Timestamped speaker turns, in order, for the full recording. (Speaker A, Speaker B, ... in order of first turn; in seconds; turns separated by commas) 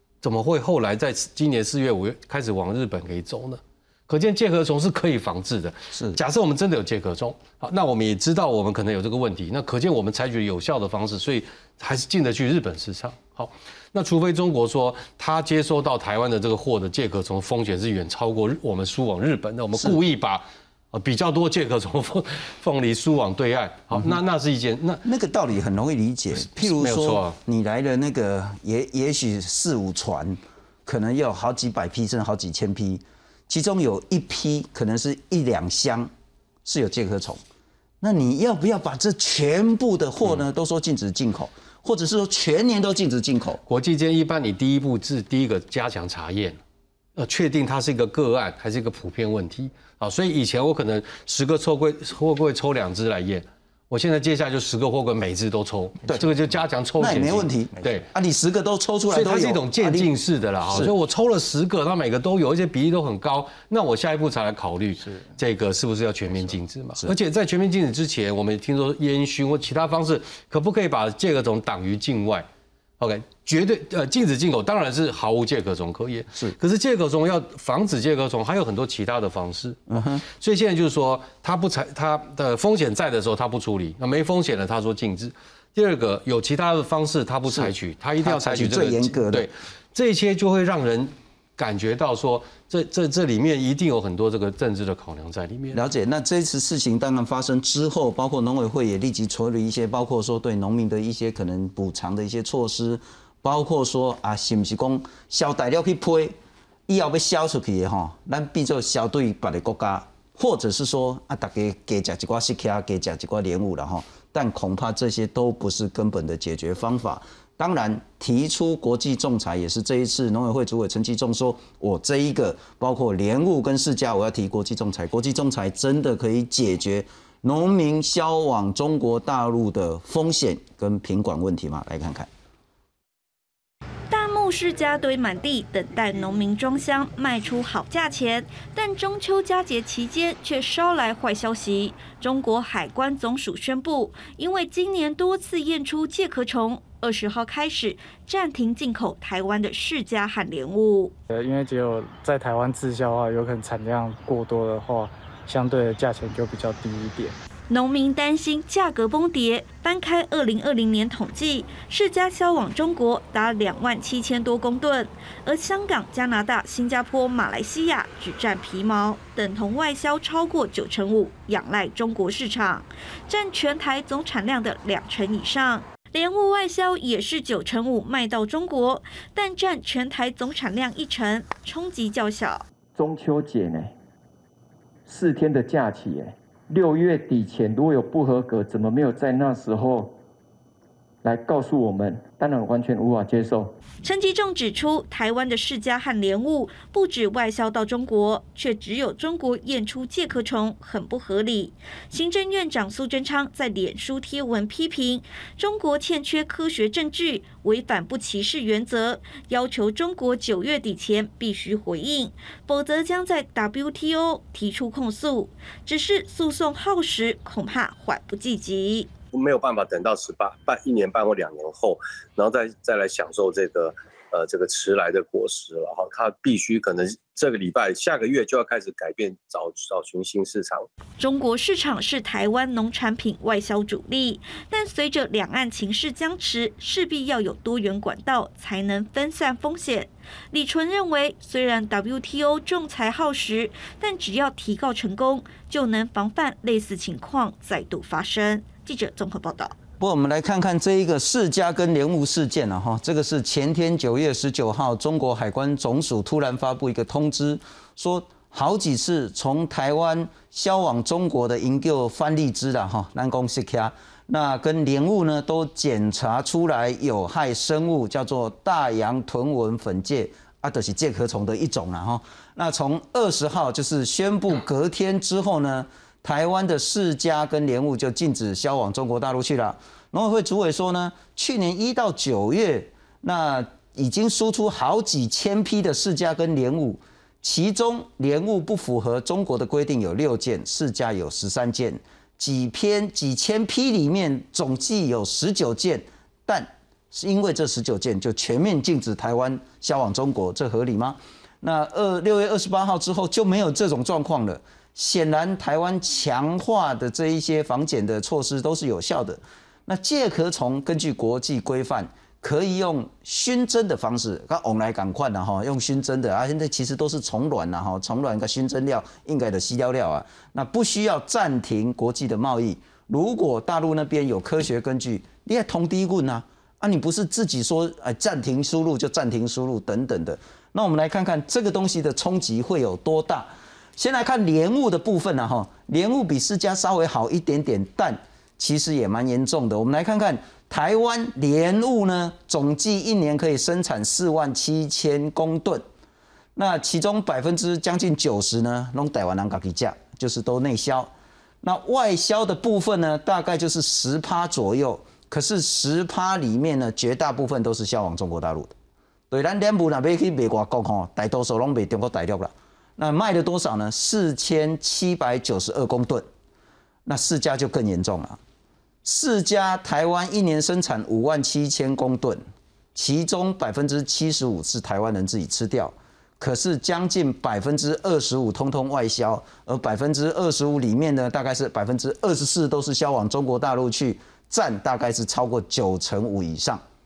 Speaker A: 0.2-25.1, Speaker B: 25.0-36.1, Speaker A: 26.4-27.4, Speaker B: 36.6-37.4, Speaker B: 38.0-43.6, Speaker A: 43.7-46.6, Speaker A: 47.2-58.1, Speaker B: 57.0-60.1, Speaker A: 59.1-72.5, Speaker A: 73.0-95.8, Speaker B: 79.9-80.2, Speaker B: 87.5-89.5, Speaker B: 95.7-106.3, Speaker B: 106.9-132.3, Speaker C: 134.1-151.2, Speaker D: 151.3-157.3, Speaker C: 157.7-182.7, Speaker E: 182.9-183.9, Speaker E: 185.1-190.2, Speaker E: 191.2-193.8, Speaker C: 194.0-219.1, Speaker F: 219.3-230.9, Speaker C: 231.2-249.8, Speaker B: 250.0-345.8, Speaker B: 346.6-358.7, Speaker B: 359.3-366.3, Speaker B: 367.1-368.4, Speaker B: 369.0-372.4, Speaker B: 372.9-386.8